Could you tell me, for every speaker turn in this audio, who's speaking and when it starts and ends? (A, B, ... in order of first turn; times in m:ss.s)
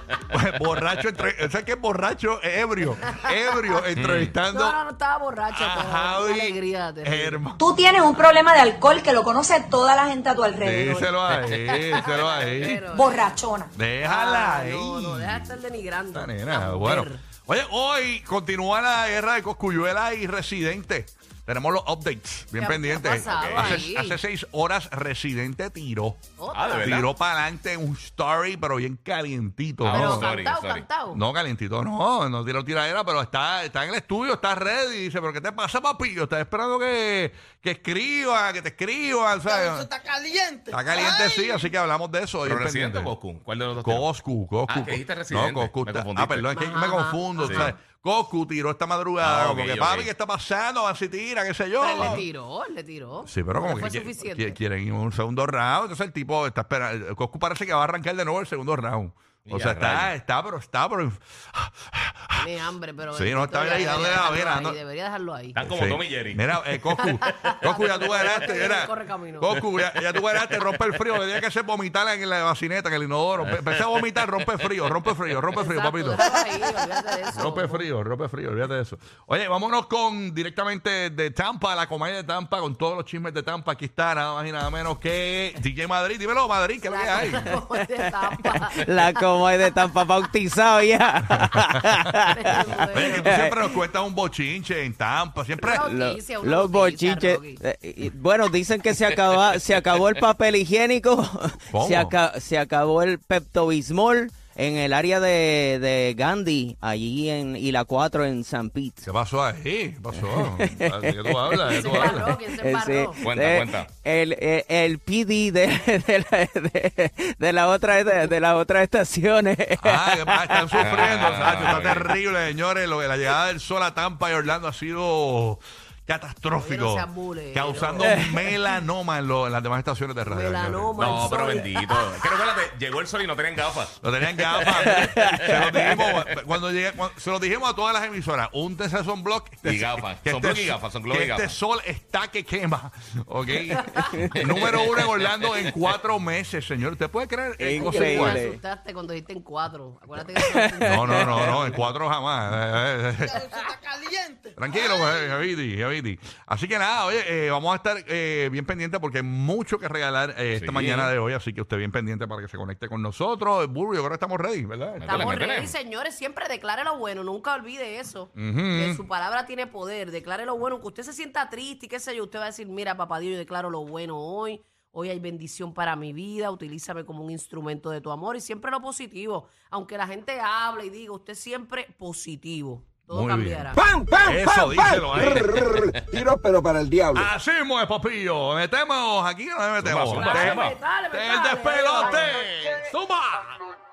0:00.3-0:04.8 A
0:03.1-0:03.8 B
0:04.0-0:04.3 C
0:04.5-0:07.4 B
0:05.5-0:07.7 A
0:07.6-0:11.1 D
0:10.6-0:12.9 A
0:11.4-0:13.3 B
0:12.9-0:13.7 D
0:13.8-0:15.5 A
0:14.0-0:17.2 B
0:16.1-0:26.2 A
0:22.6-0:24.2 B
0:23.2-0:23.8 C
0:26.4-0:27.1 B
0:26.5-0:27.1 C
0:26.8-0:30.3 A
0:29.8-0:30.9 C
0:29.9-0:31.2 B
0:31.1-0:39.9 A
0:39.5-0:41.6 E
0:40.7-0:43.1 A
0:42.4-0:44.1 C
0:43.8-0:52.2 A
0:44.7-0:46.8 C
0:46.5-0:47.7 B
0:47.4-0:47.7 C
0:49.2-0:50.1 C
0:51.8-0:54.6 B
0:51.9-0:52.2 C
0:53.2-1:02.5 A
0:59.5-1:00.1 C
1:02.4-1:05.6 B
1:03.1-1:04.8 A
1:05.5-1:06.5 C
1:05.6-1:16.3 A
1:07.0-1:09.6 B
1:10.0-1:10.8 C
1:13.4-1:14.8 C
1:15.6-1:17.9 B
1:17.3-1:27.5 A
1:26.8-1:29.2 B
1:28.6-1:33.7 F
1:32.3-1:33.3 B
1:32.9-1:35.8 A
1:35.6-1:37.6 B
1:35.8-1:49.1 F
1:39.1-1:39.4 C
1:41.7-1:42.2 A
1:49.0-1:52.3 A
1:50.1-2:02.0 F
1:51.7-1:53.2 B
1:53.2-1:53.9 C
1:59.8-2:11.3 A
2:00.8-2:02.1 C
2:06.6-2:08.1 B
2:08.0-2:08.5 F
2:10.3-2:12.0 B
2:11.0-2:16.2 C
2:14.0-2:28.4 A
2:14.9-2:16.0 F
2:19.6-2:21.6 C
2:24.4-2:25.7 C
2:27.6-2:28.6 F
2:27.7-2:31.8 B
2:30.4-2:31.7 F
2:30.8-2:33.5 A
2:33.3-2:35.1 E
2:34.6-2:45.3 A
2:40.5-2:41.1 C
2:45.0-2:45.7 C
2:45.0-3:03.8 B
2:48.4-2:49.0 A
3:03.1-3:06.0 A
3:03.8-3:07.3 G
3:07.1-3:13.6 A
3:09.8-3:10.8 C
3:10.1-3:12.4 B